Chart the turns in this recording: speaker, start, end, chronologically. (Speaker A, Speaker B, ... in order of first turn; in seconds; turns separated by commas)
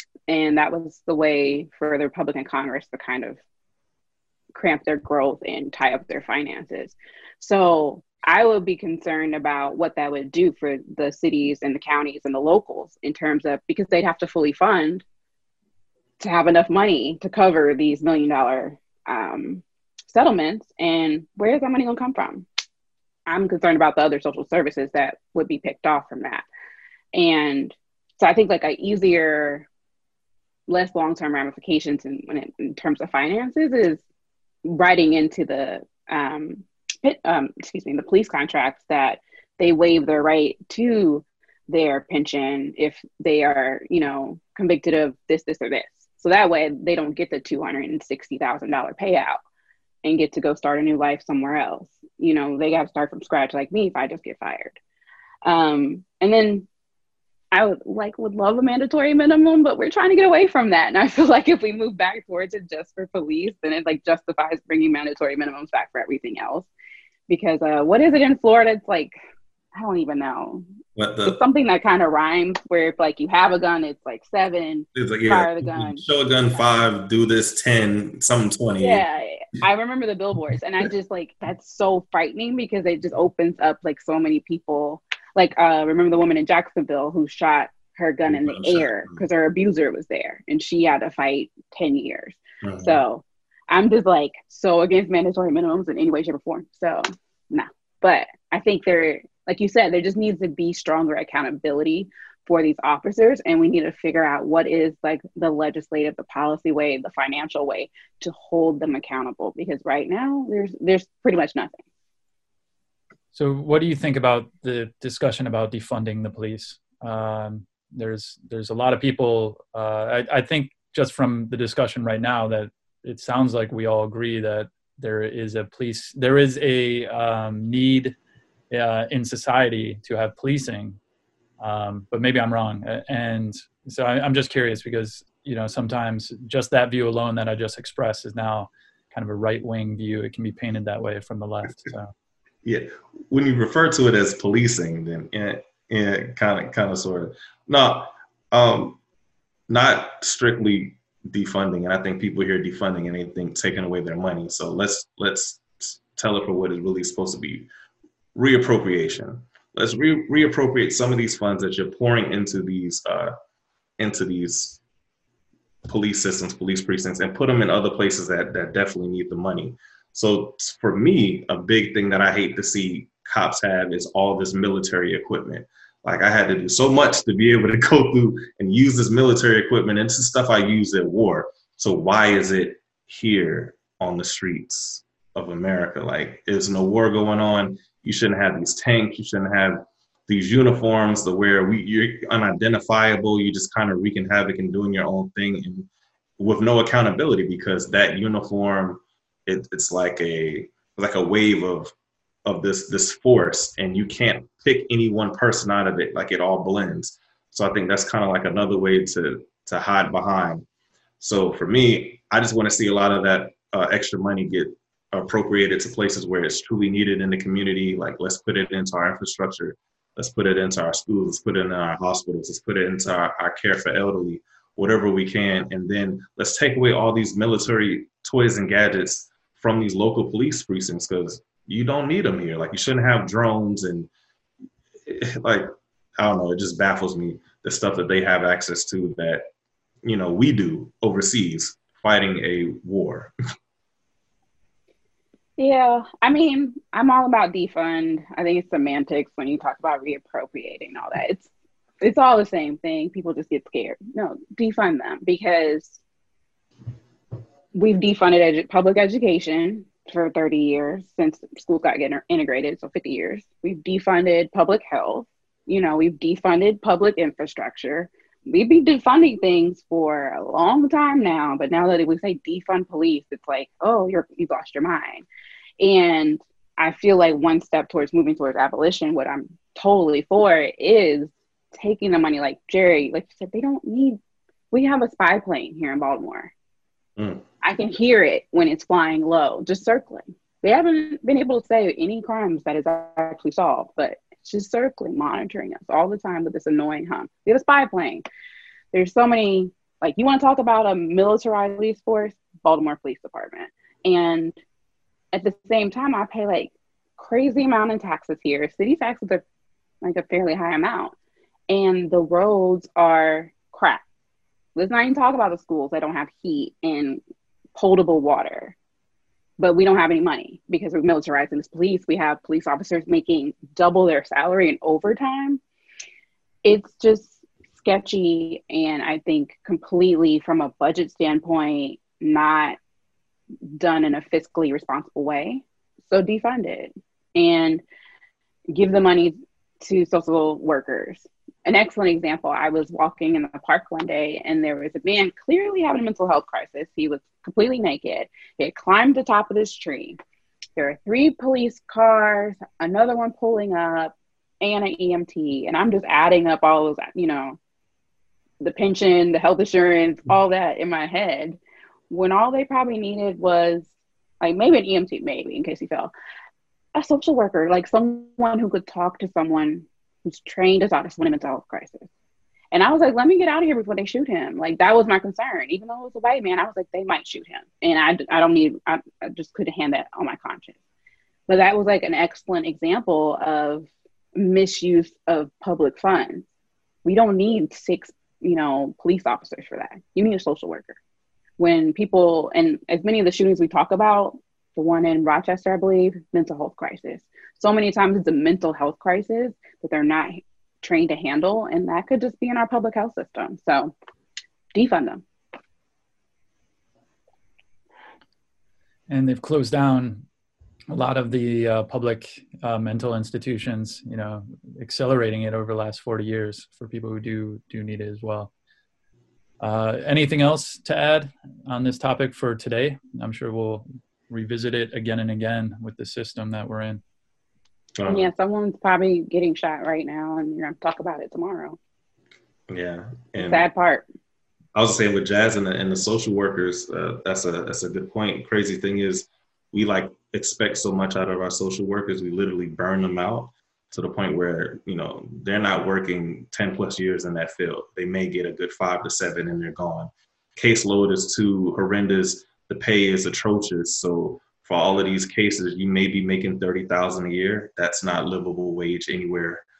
Speaker A: 0.3-3.4, Speaker A: 4.5-15.0, Speaker A: 16.2-22.4, Speaker A: 23.3-26.4, Speaker A: 27.1-29.6, Speaker A: 30.7-34.0, Speaker A: 34.6-49.4, Speaker A: 50.0-54.8, Speaker A: 55.4-56.7, Speaker A: 57.5-66.7, Speaker A: 67.3-69.2, Speaker A: 69.7-70.6, Speaker B: 71.0-71.4, Speaker A: 71.2-76.0, Speaker B: 74.9-79.0, Speaker A: 78.8-111.8, Speaker B: 88.3-89.2, Speaker B: 92.6-93.0, Speaker C: 113.3-128.1, Speaker C: 128.7-131.0, Speaker C: 131.6-142.1, Speaker B: 142.6-149.0, Speaker B: 149.7-157.7, Speaker B: 158.3-163.3, Speaker B: 164.0-164.8, Speaker B: 165.8-195.9, Speaker B: 196.4-201.9, Speaker B: 202.4-210.6, Speaker B: 211.2-234.1, Speaker B: 235.0-239.4, Speaker B: 240.0-243.3, Speaker A: 245.6-251.5, Speaker A: 252.0-256.0, Speaker A: 257.7-275.2, Speaker A: 275.8-284.2, Speaker A: 284.7-286.5, Speaker B: 287.2-287.4, Speaker A: 287.6-298.2, Speaker A: 298.9-304.6, Speaker A: 305.3-309.4, Speaker A: 310.0-311.1, Speaker A: 311.7-314.0, Speaker A: 314.7-317.2, Speaker A: 317.7-318.7, Speaker A: 319.6-325.6, Speaker A: 326.6-332.8, Speaker A: 333.7-337.8, Speaker A: 338.7-350.2, Speaker A: 350.8-357.6, Speaker A: 358.6-361.6, Speaker A: 362.1-363.9, Speaker A: 364.4-366.1, Speaker A: 366.9-372.1, Speaker A: 372.7-380.8, Speaker A: 381.5-386.4, Speaker A: 387.0-390.9, Speaker A: 391.6-403.9, Speaker A: 404.7-405.2, Speaker C: 409.1-410.2, Speaker C: 410.9-418.5, Speaker C: 419.6-427.0, Speaker B: 428.0-428.3, Speaker A: 428.1-431.8, Speaker B: 432.7-433.6, Speaker A: 433.4-434.0, Speaker B: 434.7-459.6